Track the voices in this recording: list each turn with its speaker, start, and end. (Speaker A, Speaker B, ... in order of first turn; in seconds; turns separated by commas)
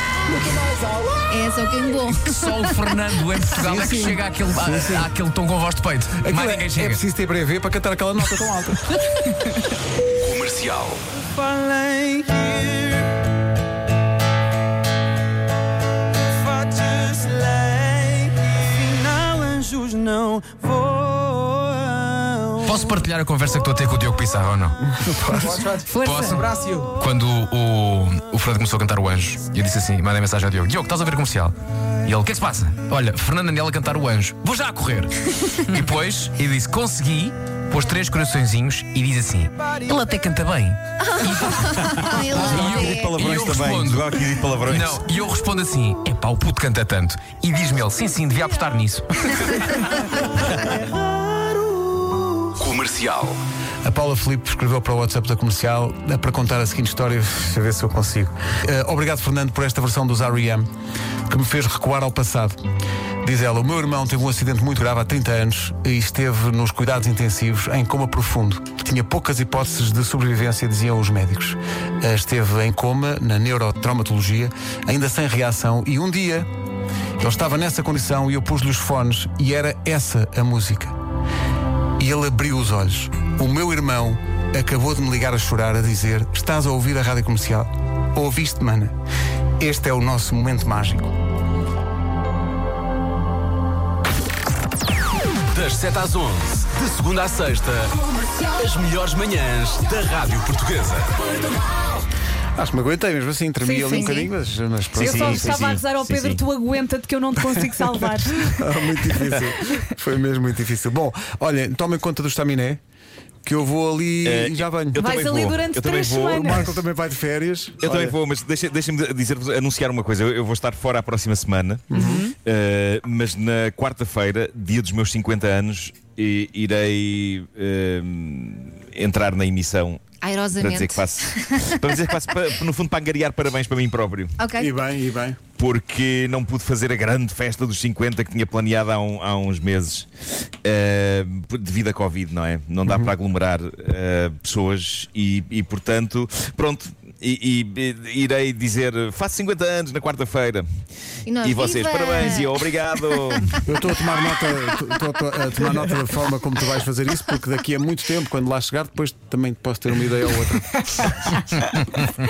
Speaker A: 0.3-1.4, Speaker B: 1.3-2.8, Speaker C: 2.0-7.0, Speaker A: 3.6-5.1, Speaker A: 6.2-9.0, Speaker D: 10.3-10.9, Speaker C: 22.6-24.8, Speaker A: 24.9-25.8, Speaker E: 25.9-26.4, Speaker C: 26.0-31.5, Speaker C: 32.0-44.0, Speaker B: 41.7-43.1, Speaker D: 42.0-45.0, Speaker C: 44.6-50.0, Speaker C: 52.6-53.3, Speaker A: 53.8-60.6, Speaker A: 61.3-62.6, Speaker A: 63.2-76.5, Speaker A: 77.2-80.9, Speaker A: 82.0-88.9, Speaker A: 89.6-91.1, Speaker F: 95.5-97.9, Speaker F: 98.5-101.2, Speaker A: 102.5-105.7, Speaker E: 103.6-104.3, Speaker D: 104.9-106.4, Speaker E: 105.0-108.6, Speaker A: 108.5-112.8, Speaker A: 113.4-115.0, Speaker D: 114.2-116.7, Speaker E: 115.0-116.7, Speaker A: 116.4-118.2, Speaker D: 117.8-121.9, Speaker A: 121.9-122.2, Speaker E: 121.9-122.3, Speaker D: 122.4-134.4, Speaker B: 130.2-131.8, Speaker B: 134.4-134.7, Speaker A: 134.6-135.4, Speaker D: 135.6-140.1, Speaker D: 140.6-150.6, Speaker B: 151.3-152.6, Speaker D: 151.4-153.5, Speaker A: 153.6-161.3